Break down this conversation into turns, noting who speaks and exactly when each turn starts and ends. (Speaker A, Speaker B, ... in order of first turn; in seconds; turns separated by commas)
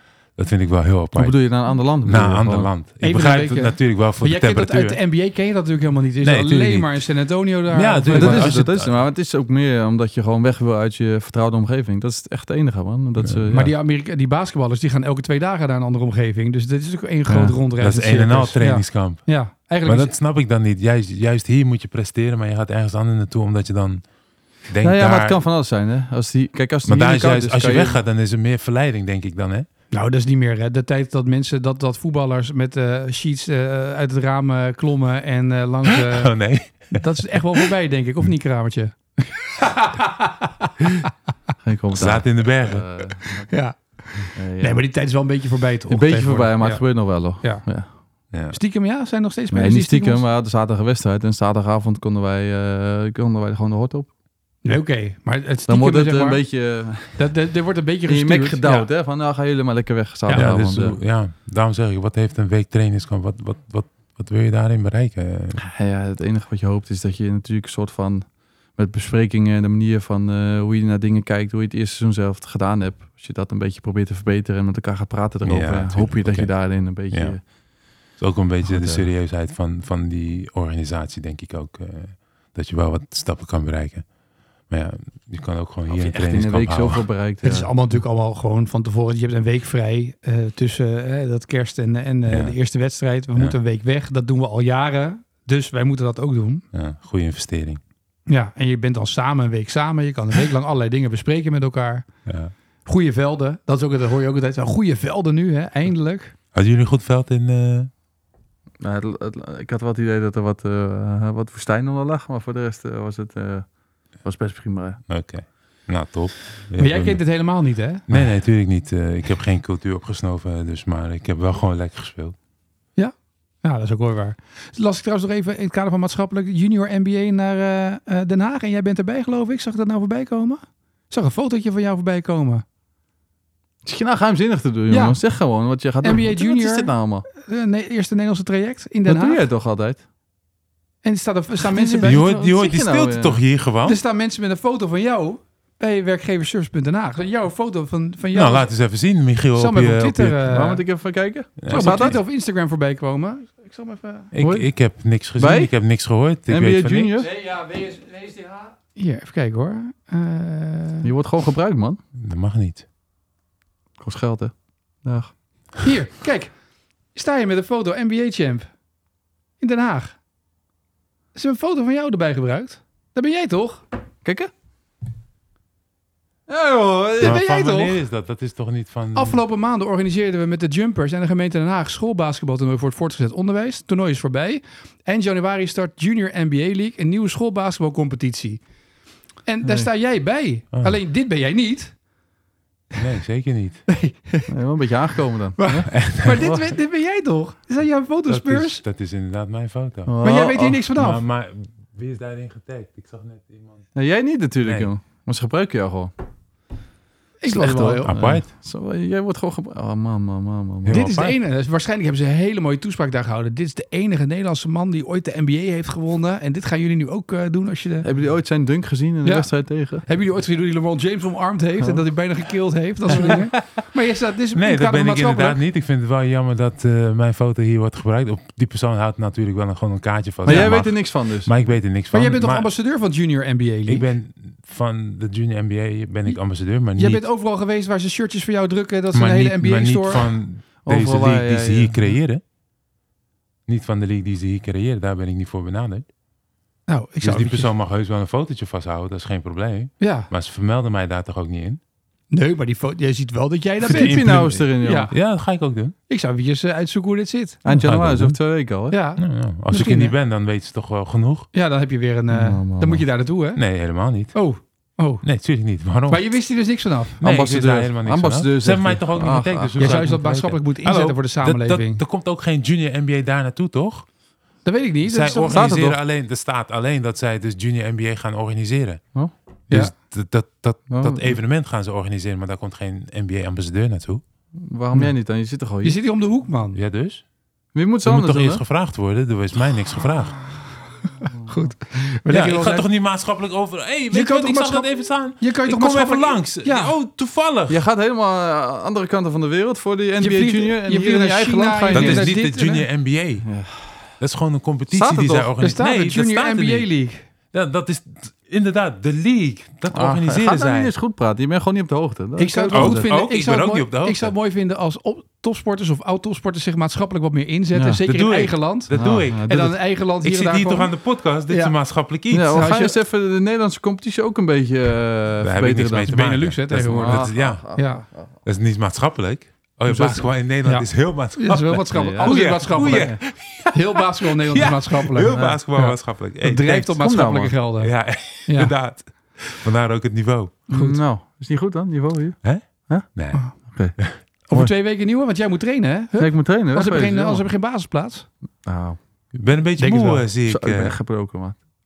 Speaker A: 0.3-5.0, Speaker B: 1.1-2.7, Speaker C: 3.0-8.6, Speaker A: 6.2-7.0, Speaker A: 7.7-8.9, Speaker B: 8.1-13.7, Speaker A: 13.2-13.4, Speaker C: 13.5-20.1, Speaker B: 17.3-17.5, Speaker A: 17.8-19.3, Speaker A: 19.8-24.0, Speaker A: 24.7-25.4, Speaker B: 24.8-28.0, Speaker A: 26.9-29.7, Speaker C: 29.9-36.3, Speaker A: 35.9-37.0, Speaker C: 36.9-41.1, Speaker B: 41.6-43.5, Speaker A: 41.9-42.9, Speaker C: 43.5-47.7, Speaker B: 44.3-44.9, Speaker B: 45.9-47.9, Speaker C: 48.5-50.2, Speaker B: 49.5-54.1, Speaker C: 54.6-56.5, Speaker B: 55.7-57.3, Speaker C: 57.1-58.9, Speaker B: 58.1-61.0, Speaker A: 60.3-65.6, Speaker B: 65.6-77.4, Speaker A: 75.4-77.4, Speaker A: 78.2-84.1, Speaker B: 78.7-79.0, Speaker A: 84.7-87.1, Speaker B: 85.9-87.7, Speaker C: 87.4-96.6, Speaker A: 92.3-92.6, Speaker A: 96.7-97.8, Speaker C: 98.3-102.0, Speaker A: 102.3-102.5, Speaker C: 102.8-106.3, Speaker A: 106.5-107.9, Speaker B: 108.8-113.7, Speaker B: 114.2-115.0, Speaker A: 115.1-117.2, Speaker C: 116.8-118.0, Speaker A: 118.1-122.3, Speaker C: 123.0-132.6, Speaker B: 133.8-137.2, Speaker C: 134.9-135.2, Speaker C: 136.0-139.4, Speaker B: 139.1-140.0, Speaker C: 141.0-142.2, Speaker B: 141.7-143.4, Speaker A: 142.0-144.0, Speaker C: 143.8-148.7, Speaker A: 148.3-150.4, Speaker C: 149.5-150.8, Speaker B: 150.5-152.2, Speaker A: 151.6-152.2, Speaker C: 151.7-154.3, Speaker A: 154.3-157.1, Speaker B: 154.4-154.7, Speaker B: 155.3-155.7, Speaker B: 156.5-157.3, Speaker C: 157.2-161.1, Speaker B: 161.0-162.0, Speaker A: 162.2-162.8, Speaker B: 164.0-165.3, Speaker C: 165.8-166.5, Speaker C: 167.1-168.7, Speaker C: 169.6-170.2, Speaker C: 171.3-173.8, Speaker B: 174.2-174.5, Speaker B: 176.5-177.4, Speaker C: 177.2-178.0, Speaker A: 177.2-179.4, Speaker C: 179.1-188.6, Speaker C: 189.4-191.9, Speaker B: 189.6-189.9, Speaker A: 193.0-193.8, Speaker C: 193.9-194.5, Speaker B: 194.5-196.7, Speaker C: 195.6-198.8, Speaker A: 195.9-196.5, Speaker A: 198.3-200.1, Speaker B: 200.1-200.8, Speaker C: 200.2-201.2, Speaker A: 201.0-203.9, Speaker B: 203.9-206.1, Speaker A: 204.6-204.9, Speaker C: 207.4-208.1, Speaker B: 207.4-211.0, Speaker A: 208.0-208.5, Speaker A: 210.8-211.3, Speaker C: 210.9-218.1, Speaker B: 218.0-220.0, Speaker C: 219.2-225.6, Speaker B: 221.8-222.0, Speaker B: 223.1-223.4, Speaker A: 224.6-232.7, Speaker B: 230.4-231.5, Speaker C: 232.1-234.1, Speaker A: 233.9-237.2, Speaker C: 236.9-240.2, Speaker A: 239.1-242.4, Speaker B: 240.8-242.2, Speaker A: 243.7-246.1, Speaker C: 246.9-247.7, Speaker A: 247.2-251.8, Speaker C: 250.0-250.3, Speaker C: 252.3-254.2, Speaker B: 253.8-255.1, Speaker A: 253.8-255.9, Speaker C: 254.8-255.1, Speaker C: 256.1-257.6, Speaker B: 257.6-258.9, Speaker A: 257.7-258.4, Speaker C: 258.9-260.1, Speaker A: 259.2-261.5, Speaker C: 261.5-263.6, Speaker B: 262.3-263.0, Speaker A: 263.6-264.3, Speaker C: 264.3-265.2, Speaker A: 265.2-266.2, Speaker C: 266.1-267.2, Speaker A: 267.2-274.1, Speaker B: 267.2-269.8, Speaker C: 269.8-272.0, Speaker C: 274.6-275.7, Speaker A: 275.1-279.0, Speaker B: 275.5-275.9, Speaker A: 279.7-284.2, Speaker B: 280.9-281.4, Speaker B: 284.6-286.0, Speaker C: 285.8-286.8, Speaker A: 286.7-287.2, Speaker B: 287.7-288.6, Speaker A: 288.0-290.4, Speaker C: 291.2-292.9, Speaker A: 292.3-297.8, Speaker C: 294.1-296.9, Speaker B: 297.7-302.3, Speaker C: 300.2-302.8, Speaker A: 301.9-303.5, Speaker B: 303.4-303.8, Speaker A: 304.2-306.9, Speaker B: 304.9-305.5, Speaker C: 305.6-307.2, Speaker A: 307.5-310.9, Speaker B: 309.9-313.1, Speaker C: 312.4-320.9, Speaker A: 312.7-314.3, Speaker B: 317.7-318.0, Speaker A: 318.1-322.6, Speaker B: 318.9-319.7, Speaker C: 321.5-321.8, Speaker B: 322.3-326.1, Speaker C: 322.4-322.9, Speaker A: 325.4-327.8, Speaker C: 326.1-328.0, Speaker B: 326.7-328.3, Speaker A: 328.4-336.9, Speaker B: 329.9-330.2, Speaker C: 330.6-337.9, Speaker B: 331.9-333.2, Speaker B: 335.3-335.6, Speaker B: 336.8-337.5, Speaker A: 337.8-340.5, Speaker C: 338.4-338.7, Speaker B: 340.7-344.0, Speaker C: 340.7-341.0, Speaker A: 342.4-343.4, Speaker C: 344.5-348.3, Speaker B: 346.2-347.4, Speaker B: 348.6-349.0, Speaker A: 349.3-350.9, Speaker C: 349.8-350.3, Speaker B: 350.5-351.6